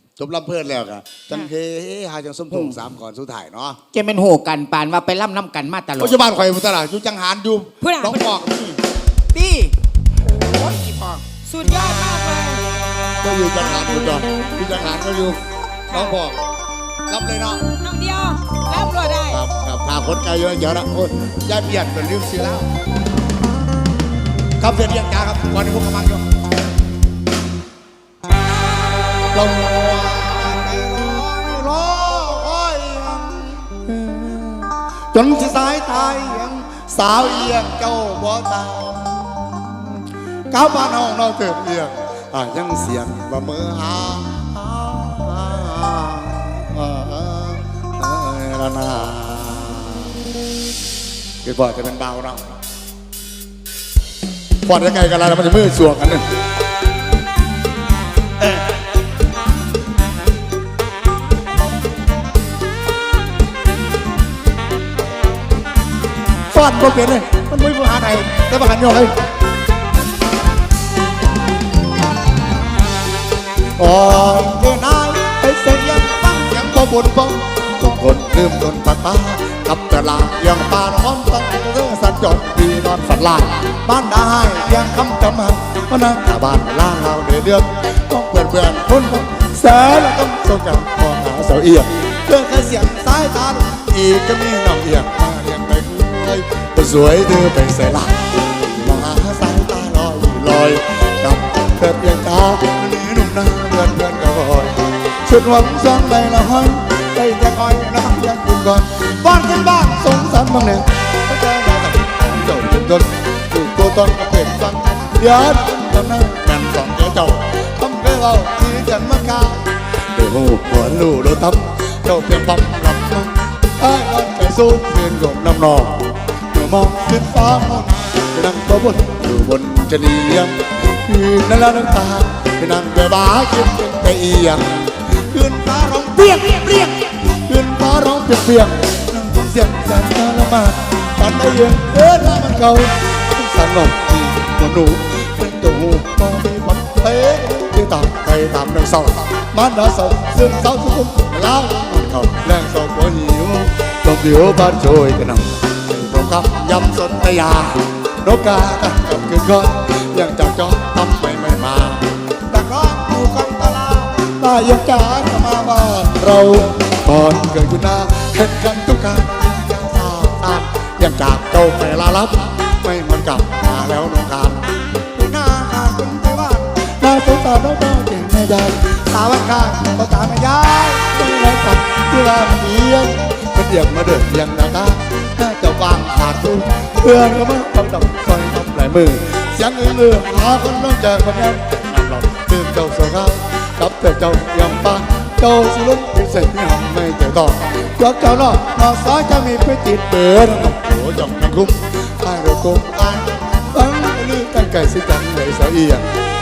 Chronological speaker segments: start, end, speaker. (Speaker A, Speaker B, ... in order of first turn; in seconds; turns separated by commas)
Speaker A: 0.2-3.8, Speaker B: 2.5-2.8, Speaker B: 3.9-6.2, Speaker A: 6.0-8.8, Speaker C: 7.8-8.3, Speaker B: 9.3-9.8, Speaker B: 10.2-11.2, Speaker C: 11.4-12.6, Speaker A: 13.2-16.4, Speaker C: 15.9-16.2, Speaker A: 17.1-17.6, Speaker C: 17.8-19.4, Speaker A: 19.3-22.7, Speaker A: 24.6-26.2, Speaker A: 29.3-39.7, Speaker A: 40.5-50.1, Speaker A: 51.4-52.5, Speaker A: 54.6-56.2, Speaker A: 66.5-69.1, Speaker A: 73.8-206.1